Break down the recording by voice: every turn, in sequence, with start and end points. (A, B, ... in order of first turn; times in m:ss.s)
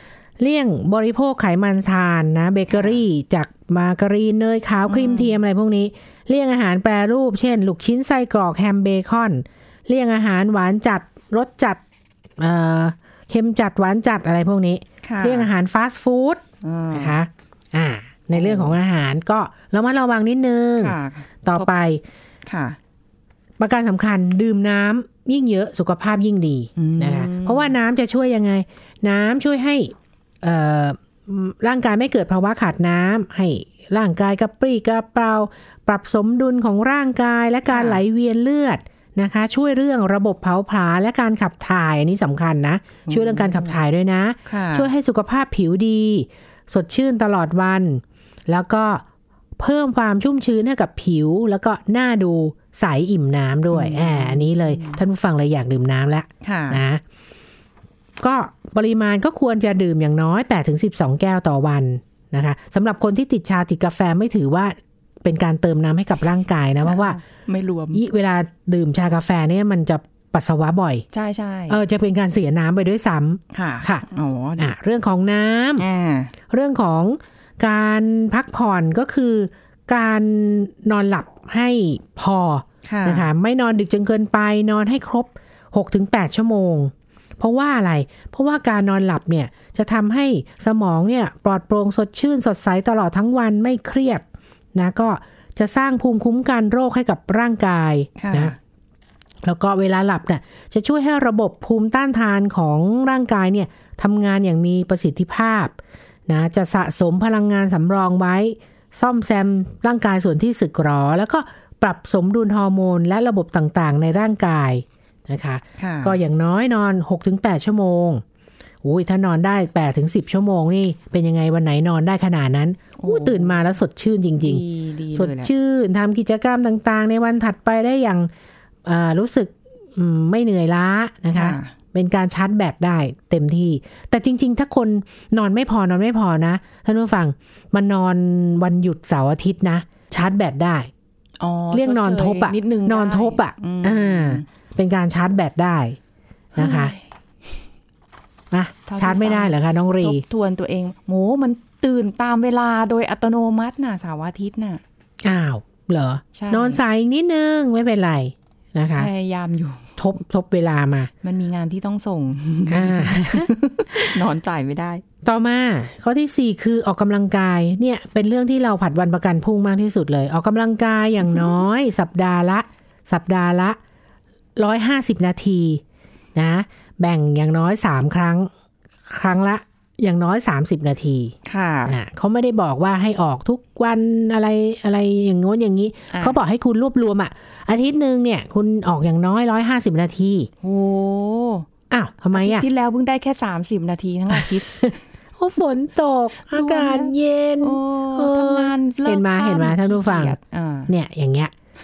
0:00.4-0:11.8 A
0:04.9-0:05.4 B
0:12.4-0:22.0 A
0:15.0-0:15.5 B
0:16.6-0:17.2 B
0:18.4-0:18.7 B
0:20.8-0:21.7 B
0:22.4-0:22.8 B
0:23.6-0:49.0 A
0:26.8-0:27.7 B
0:37.7-0:38.0 B
0:43.1-0:43.8 B
0:44.4-0:44.9 B
0:49.6-0:57.0 A
0:53.7-0:55.0 B
0:56.4-0:56.8 B
0:58.2-1:07.2 A
1:06.8-1:08.0 B
1:07.9-1:11.0 A
1:11.1-1:11.8 B
1:11.7-1:14.0 A
1:13.5-1:14.7 B
1:14.6-1:15.8 A
1:15.8-1:16.3 B
1:16.5-1:34.2 A
1:22.8-1:23.3 B
1:34.7-1:38.5 A
1:38.2-1:38.5 B
1:39.4-1:45.7 A
1:46.3-1:58.2 A
1:55.8-1:56.2 B
1:58.8-2:04.6 A
2:03.0-2:03.5 B
2:04.4-2:05.5 B
2:05.1-2:08.3 A
2:08.8-2:20.9 A
2:11.3-2:11.7 B
2:21.4-2:24.4 B
2:21.7-2:26.0 A
2:26.5-2:26.9 A
2:26.6-2:27.0 B
2:28.5-2:30.2 A
2:28.9-2:34.8 B
2:35.2-2:39.1 A
2:36.3-2:36.8 B
2:39.0-2:39.9 B
2:40.0-2:41.1 A
2:41.2-2:45.0 B
2:42.7-2:44.1 A
2:45.2-2:53.8 A
2:54.6-2:55.8 A
2:56.3-2:58.5 A
2:59.1-3:01.3 A
3:01.4-3:02.0 B
3:01.8-3:10.5 A
3:06.1-3:06.4 B
3:10.6-3:11.7 B
3:11.9-3:12.7 A
3:12.3-3:14.6 B
3:14.6-3:20.4 A
3:16.5-3:17.1 B
3:17.6-3:20.9 B
3:20.9-3:21.5 A